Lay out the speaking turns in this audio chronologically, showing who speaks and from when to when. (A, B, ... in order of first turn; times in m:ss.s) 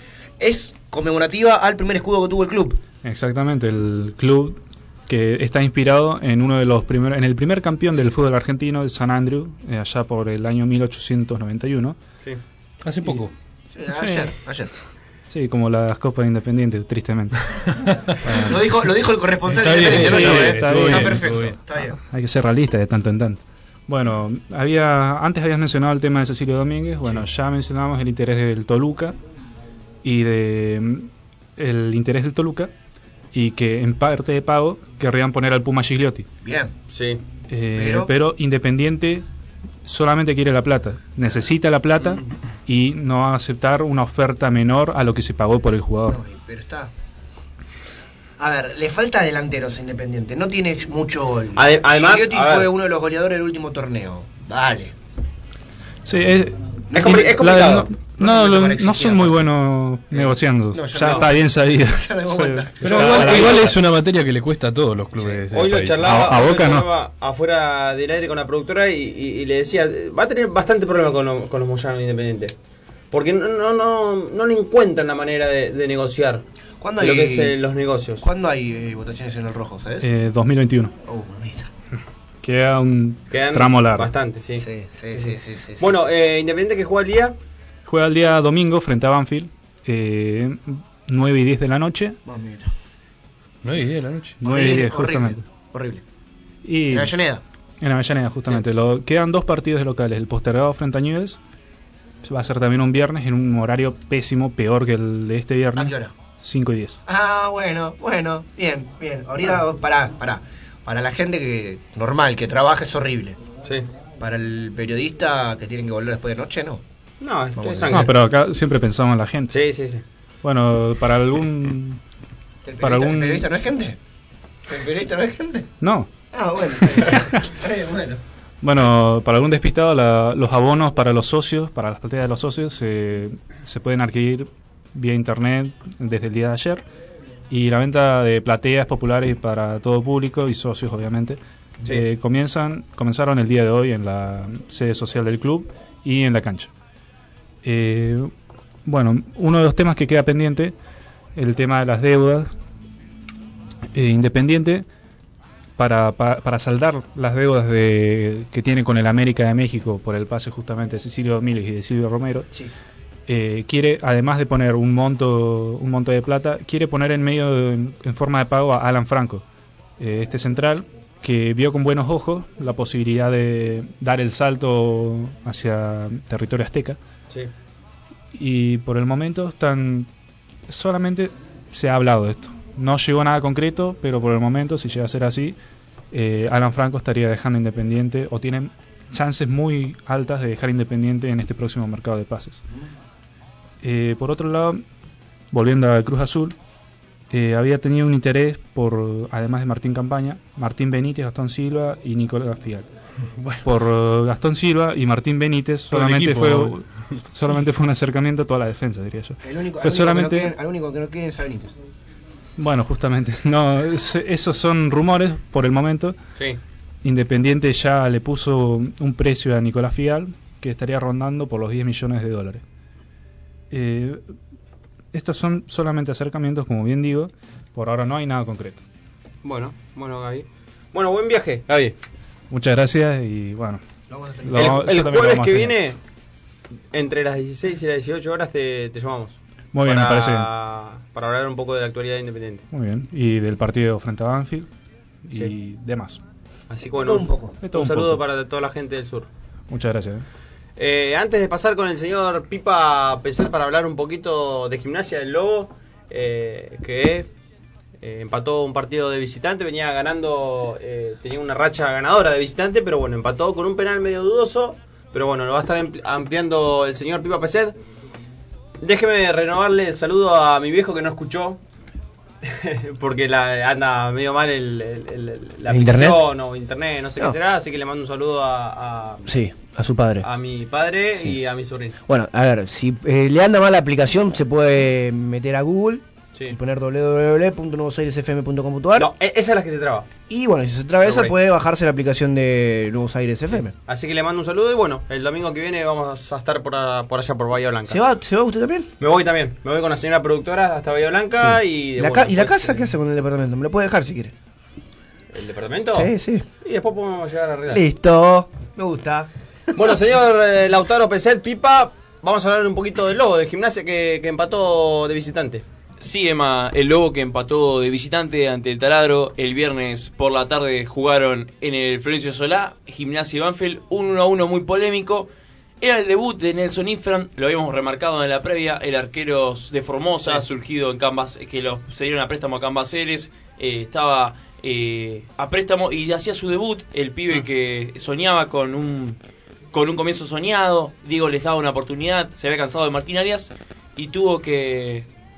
0:00.4-0:02.8 A
0:03.0-0:12.0 B
0:12.8-0:13.3 C
0:13.7-0:14.7 A
0:14.0-0:14.3 B
0:15.3-0:18.6 B
0:18.3-0:22.0 A
0:19.5-0:21.6 C
0:19.8-0:21.4 B
0:21.9-0:29.2 B
0:30.0-0:32.7 B
0:33.3-0:36.3 B
0:36.4-0:36.7 A
0:36.9-0:37.2 D
0:37.5-0:39.3 B
0:37.7-0:38.1 A
0:39.8-0:46.2 B
0:46.1-0:46.9 A
0:48.4-0:55.0 A
0:51.6-0:52.7 D
0:56.0-1:03.7 B
0:56.9-0:57.3 A
0:56.9-0:57.9 D
0:58.2-0:59.5 A
1:00.1-1:03.8 A
1:01.0-1:01.3 D
1:02.8-1:06.0 C
1:02.9-1:03.6 D
1:05.2-1:05.4 A
1:05.5-1:12.6 D
1:06.0-1:06.9 B
1:13.1-1:16.4 D
1:16.8-1:17.6 A
1:17.0-1:18.2 D
1:18.2-1:20.1 A
1:20.0-1:20.9 B
1:21.0-1:21.7 A
1:22.4-1:24.1 B
1:23.3-1:24.6 D
1:24.6-1:25.9 A
1:25.8-1:27.4 D
1:27.9-1:32.2 B
1:32.2-1:32.7 A
1:33.6-1:34.4 C
1:34.4-1:35.4 B
1:34.4-1:36.0 A
1:36.6-1:37.1 B
1:36.9-1:37.4 A
1:37.8-1:41.4 B
1:42.2-1:47.0 B
1:45.7-1:46.1 A
1:47.1-1:53.4 A
1:54.2-1:56.8 A
1:57.2-1:58.1 D
1:57.6-1:58.1 A
1:57.9-1:59.6 B
1:59.5-2:00.0 D
2:00.4-2:02.0 B
2:02.6-2:04.0 A
2:02.8-2:03.5 B
2:04.7-2:05.7 A
2:05.8-2:06.1 B
2:06.3-2:08.2 A
2:07.0-2:07.4 B
2:08.6-2:16.8 B
2:17.5-2:26.7 B
2:27.6-2:28.3 B
2:28.9-2:30.8 B
2:31.4-2:32.5 B
2:33.9-2:34.9 B
2:35.8-2:42.5 B
2:43.3-2:49.4 B
2:50.0-2:57.0 B
2:58.3-3:00.1 B
3:00.7-3:05.6 B
3:06.1-3:12.6 B
3:13.8-3:14.8 B
3:15.5-3:16.6 B
3:17.3-3:22.9 B
3:23.4-3:23.6 C
3:23.6-3:30.6 B
3:25.9-3:27.6 C
3:29.4-3:31.8 A
3:32.6-3:36.2 B
3:37.0-3:42.6 B
3:43.7-3:44.3 B
3:45.1-3:48.8 B
3:49.4-3:52.0 D
3:52.5-3:53.8 B
3:54.1-3:54.8 A
3:54.4-3:55.8 B
3:54.5-3:56.0 D
3:56.9-4:02.6 D
3:59.7-4:00.5 B
4:02.7-4:04.7 B
4:05.3-4:06.2 B
4:06.7-4:09.3 D
4:07.0-4:07.6 A
4:07.6-4:08.2 B
4:09.7-4:10.2 B
4:10.8-4:17.3 D
4:18.0-4:27.7 D
4:28.8-4:31.6 D
4:32.4-4:39.3 D
4:35.7-4:36.2 A
4:39.2-4:40.3 A
4:40.2-4:42.0 D
4:42.0-4:49.1 A
4:49.0-4:50.1 D
4:50.3-4:53.7 A
4:51.0-4:51.3 D
4:53.9-4:58.0 D
4:57.9-4:58.9 A
4:59.0-5:02.9 D
5:01.4-5:04.3 A
5:05.3-5:06.1 D
5:05.9-5:06.4 A
5:06.6-5:07.8 D
5:07.7-5:09.3 A
5:09.8-5:15.6 D
5:16.0-5:39.2 E
5:39.7-5:45.1 E